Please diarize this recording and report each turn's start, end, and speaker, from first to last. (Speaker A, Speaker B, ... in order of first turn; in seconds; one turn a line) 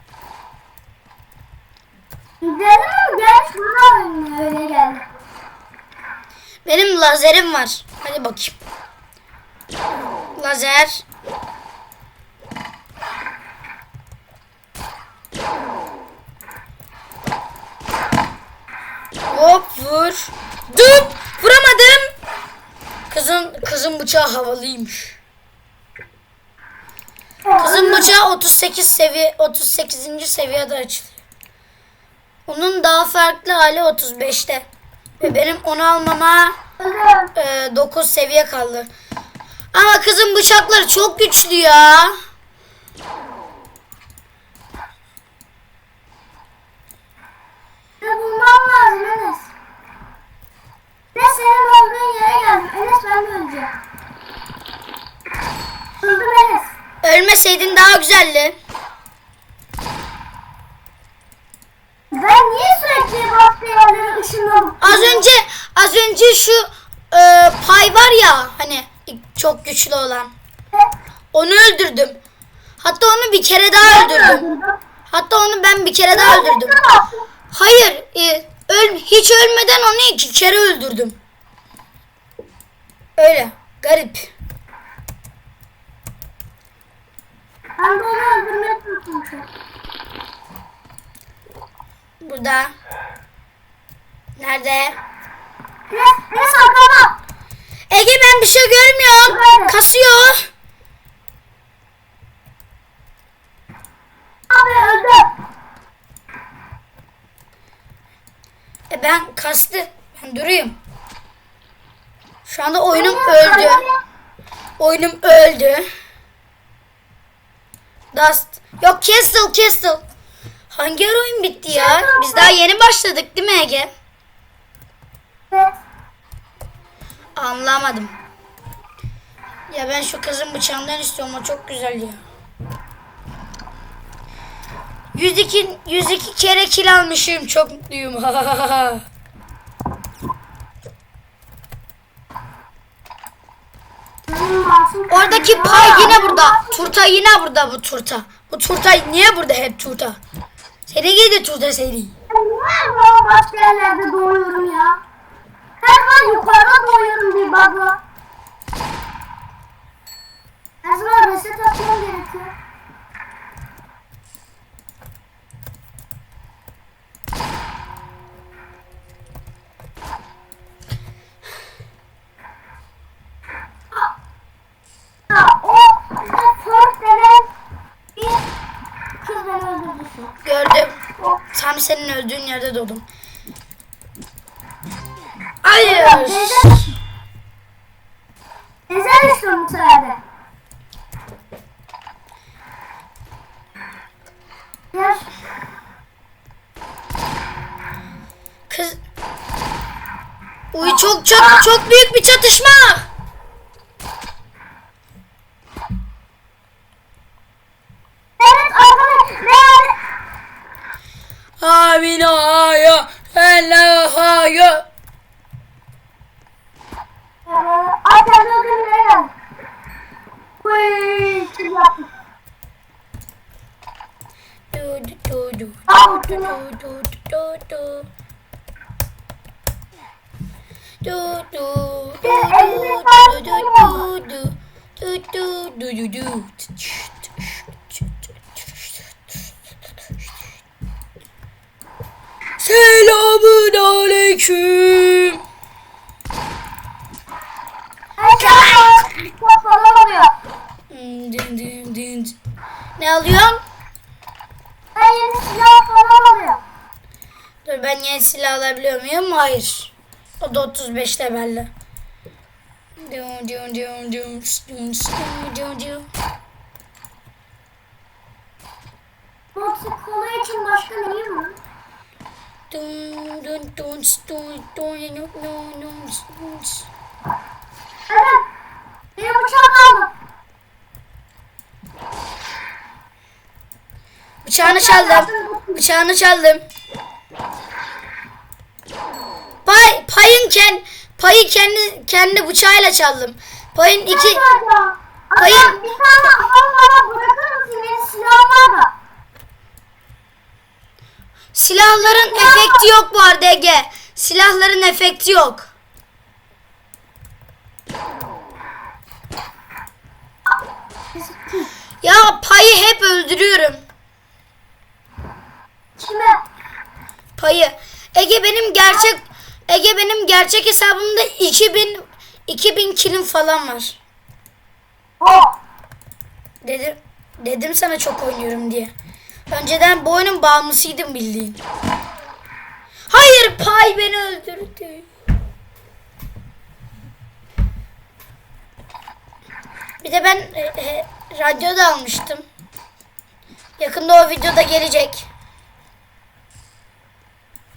Speaker A: 2.4-5.0
Speaker B: 6.6-8.6
Speaker B: 10.4-11.0
Speaker B: 19.3-22.1
Speaker B: 23.1-25.2
Speaker A: 27.4-28.1
Speaker B: 27.6-31.1
Speaker B: 32.5-34.7
Speaker B: 35.2-36.5
Speaker A: 36.8-37.3
Speaker B: 37.3-38.9
Speaker B: 39.7-42.1
Speaker A: 48.0-49.5
Speaker A: 51.1-53.7
Speaker A: 56.0-56.7
Speaker B: 57.0-58.5
Speaker A: 62.1-65.2
Speaker B: 64.8-70.3
Speaker B: 71.3-72.2
Speaker B: 72.8-74.5
Speaker A: 73.8-74.8
Speaker B: 75.1-76.7
Speaker A: 76.1-77.2
Speaker B: 77.5-81.2
Speaker B: 83.2-84.3
Speaker A: 87.8-89.5
Speaker B: 92.2-92.7
Speaker B: 94.4-95.0
Speaker A: 95.9-97.2
Speaker B: 97.9-100.4
Speaker A: 99.2-99.7
Speaker A: 104.5-105.3
Speaker B: 108.9-110.8
Speaker B: 112.5-113.8
Speaker A: 112.9-114.0
Speaker B: 114.8-115.8
Speaker B: 118.1-120.0
Speaker B: 120.7-123.9
Speaker A: 121.7-122.5
Speaker A: 125.5-125.8
Speaker B: 127.4-128.1
Speaker B: 129.7-132.2
Speaker B: 135.1-139.0
Speaker A: 144.3-146.8
Speaker B: 145.1-150.2
Speaker B: 150.9-152.1
Speaker A: 152.3-155.0
Speaker A: 155.8-158.0
Speaker A: 160.8-162.5
Speaker A: 175.3-177.5
Speaker A: 178.2-178.5
Speaker A: 179.2-180.3
Speaker B: 180.4-181.0
Speaker B: 181.5-183.1
Speaker B: 185.6-186.7
Speaker A: 185.8-187.0
Speaker A: 188.9-190.2
Speaker A: 194.9-195.3
Speaker B: 198.7-199.0
Speaker B: 200.7-203.0
Speaker A: 208.4-210.0
Speaker B: 211.6-214.8
Speaker A: 217.5-219.3
Speaker A: 220.6-222.1
Speaker B: 224.7-225.8
Speaker A: 225.9-226.6
Speaker B: 226.3-228.1
Speaker B: 231.0-238.0
Speaker A: 232.2-234.0
Speaker B: 242.6-245.4
Speaker A: 248.2-250.3
Speaker B: 248.4-248.8
Speaker B: 250.9-252.3
Speaker B: 253.0-253.6
Speaker A: 254.9-256.6
Speaker B: 257.6-261.7
Speaker B: 263.0-266.1
Speaker A: 269.5-271.6
Speaker B: 272.7-276.9
Speaker A: 278.1-278.4
Speaker A: 279.1-280.1
Speaker B: 284.4-286.6
Speaker A: 284.6-285.8
Speaker B: 289.6-294.4
Speaker A: 294.1-298.9
Speaker B: 295.4-295.8
Speaker B: 301.5-305.7
Speaker A: 302.0-302.9
Speaker A: 311.1-311.7
Speaker B: 312.0-313.8
Speaker A: 316.0-316.4
Speaker B: 317.4-324.0
Speaker A: 325.2-325.6
Speaker B: 326.6-328.9
Speaker B: 329.5-331.6
Speaker B: 333.1-335.1
Speaker B: 340.0-342.4
Speaker B: 343.8-345.3